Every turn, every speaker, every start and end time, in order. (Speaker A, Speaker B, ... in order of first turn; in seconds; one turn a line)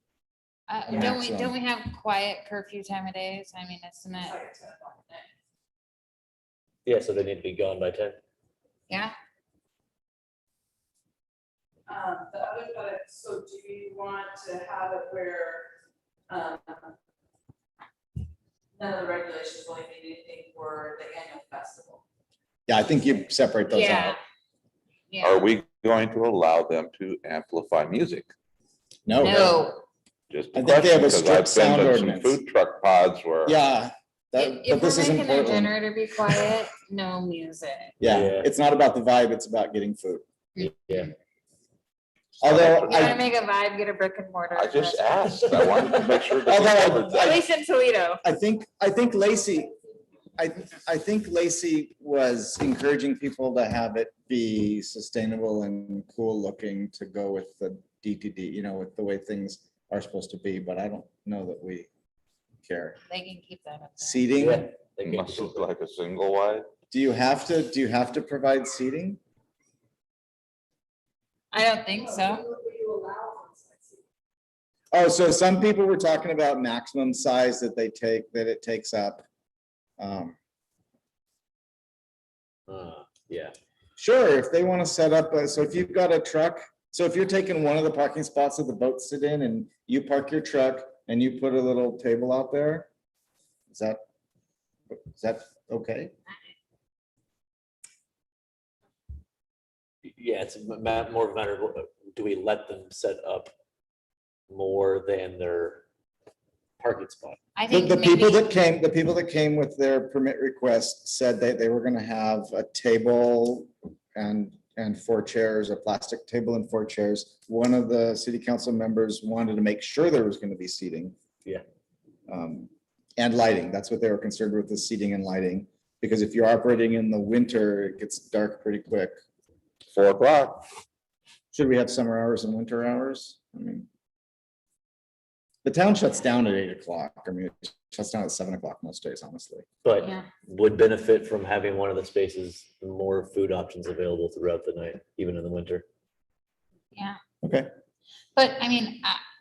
Speaker A: 0.7-4.4
Speaker B: 0.9-1.5
Speaker C: 4.2-5.2
Speaker D: 6.9-8.2
Speaker A: 8.9-9.1
Speaker C: 11.9-15.7
Speaker C: 16.3-16.9
Speaker C: 18.8-22.0
Speaker B: 22.7-24.2
Speaker A: 23.7-24.2
Speaker A: 25.1-25.5
Speaker E: 25.2-28.3
Speaker B: 29.1-29.6
Speaker A: 29.2-29.8
Speaker E: 30.3-33.6
Speaker B: 30.6-32.4
Speaker B: 33.5-35.8
Speaker A: 34.4-38.0
Speaker B: 38.0-40.2
Speaker D: 38.1-38.5
Speaker D: 40.6-41.1
Speaker B: 42.4-43.2
Speaker E: 42.4-43.2
Speaker A: 42.8-45.8
Speaker E: 44.5-47.3
Speaker D: 45.5-46.1
Speaker B: 46.5-47.4
Speaker A: 47.1-48.2
Speaker B: 48.2-49.7
Speaker B: 50.4-61.9
Speaker B: 62.6-63.0
Speaker A: 63.1-64.3
Speaker B: 64.0-64.7
Speaker D: 64.4-65.6
Speaker E: 65.0-66.7
Speaker B: 66.9-69.2
Speaker A: 71.5-72.4
Speaker C: 72.0-74.0
Speaker B: 74.9-79.2
Speaker B: 80.0-80.3
Speaker D: 82.7-83.5
Speaker B: 84.0-92.9
Speaker B: 93.7-94.0
Speaker B: 94.9-96.1
Speaker D: 100.0-103.5
Speaker D: 104.5-105.8
Speaker D: 106.8-107.4
Speaker A: 107.5-108.5
Speaker B: 107.7-121.1
Speaker B: 122.3-129.2
Speaker E: 129.9-130.7
Speaker B: 131.5-133.9
Speaker B: 135.6-139.7
Speaker D: 139.8-145.8
Speaker A: 140.0-140.3
Speaker B: 147.4-147.7
Speaker A: 148.3-149.2